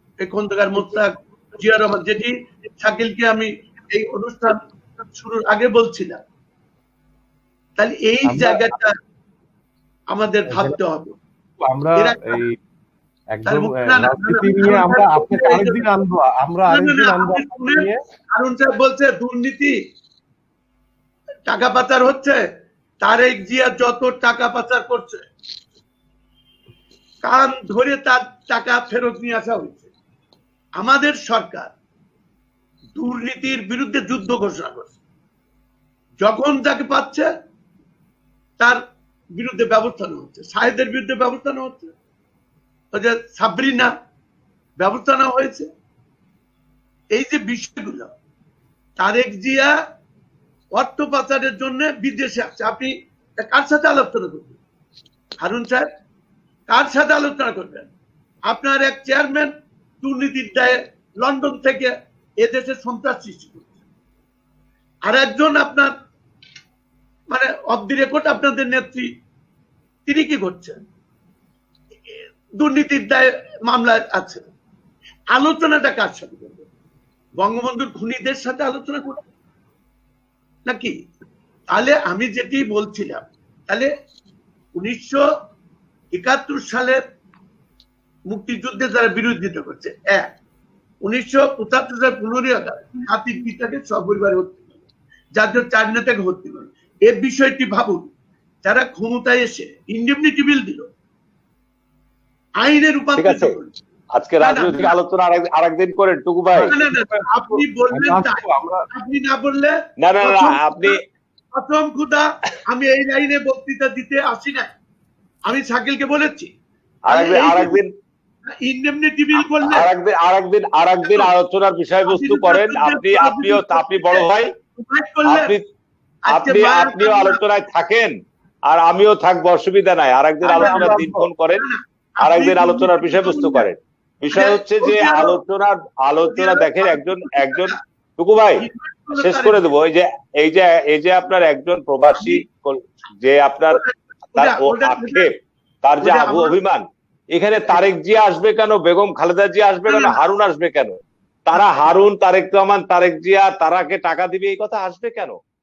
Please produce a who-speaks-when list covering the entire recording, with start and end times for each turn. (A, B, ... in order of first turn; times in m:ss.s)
0:00.2-0:06.2 A
0:07.8-0:09.0 A
0:08.2-0:08.8 B
0:10.1-0:11.2 A
0:10.5-0:10.8 B
0:11.6-0:12.5 B
0:12.0-0:12.4 A
0:13.3-0:18.0 B
0:13.4-0:15.8 A
0:16.7-0:19.7 A
0:21.5-0:22.4 A
0:23.0-0:25.2 A
0:27.2-0:29.9 A
0:30.8-0:31.7 A
0:33.0-0:34.9 A
0:36.2-0:37.3 A
0:39.4-0:41.9 A
0:42.9-0:43.9 A
0:44.8-0:45.7 A
0:47.1-0:48.1 A
0:49.0-0:49.7 A
0:50.7-0:54.6 A
0:55.4-0:55.9 A
0:56.7-0:57.9 A
0:58.5-1:03.7 A
1:05.0-1:05.9 A
1:07.3-1:09.1 A
1:10.1-1:10.8 A
1:12.1-1:14.4 A
1:15.3-1:16.6 A
1:17.4-1:19.2 A
1:20.6-1:20.9 A
1:21.7-1:23.9 A
1:24.7-1:25.2 A
1:26.1-1:27.0 A
1:28.3-1:30.3 A
1:31.0-1:34.6 A
1:35.4-1:38.1 A
1:38.6-1:40.9 A
1:42.6-1:43.7 A
1:43.2-1:43.5 C
1:44.2-1:46.7 C
1:44.4-1:44.9 A
1:46.6-1:51.0 A
1:46.6-1:48.8 B
1:50.0-1:50.9 C
1:51.5-1:54.7 A
1:55.5-1:56.5 A
1:57.0-1:57.9 C
1:57.1-1:57.8 A
1:58.6-1:59.9 A
1:59.3-2:04.5 C
2:01.0-2:01.3 A
2:02.0-2:05.6 A
2:05.3-2:05.6 C
2:06.3-2:07.4 A
2:06.3-2:08.1 C
2:08.6-2:11.6 C
2:10.4-2:13.7 A
2:10.6-2:10.9 B
2:12.2-2:18.6 C
2:14.3-2:15.4 A
2:16.2-2:17.7 A
2:18.6-2:19.6 A
2:19.2-2:23.8 C
2:23.7-2:25.3 A
2:24.4-2:35.4 C
2:26.0-2:26.6 A
2:29.8-2:30.2 A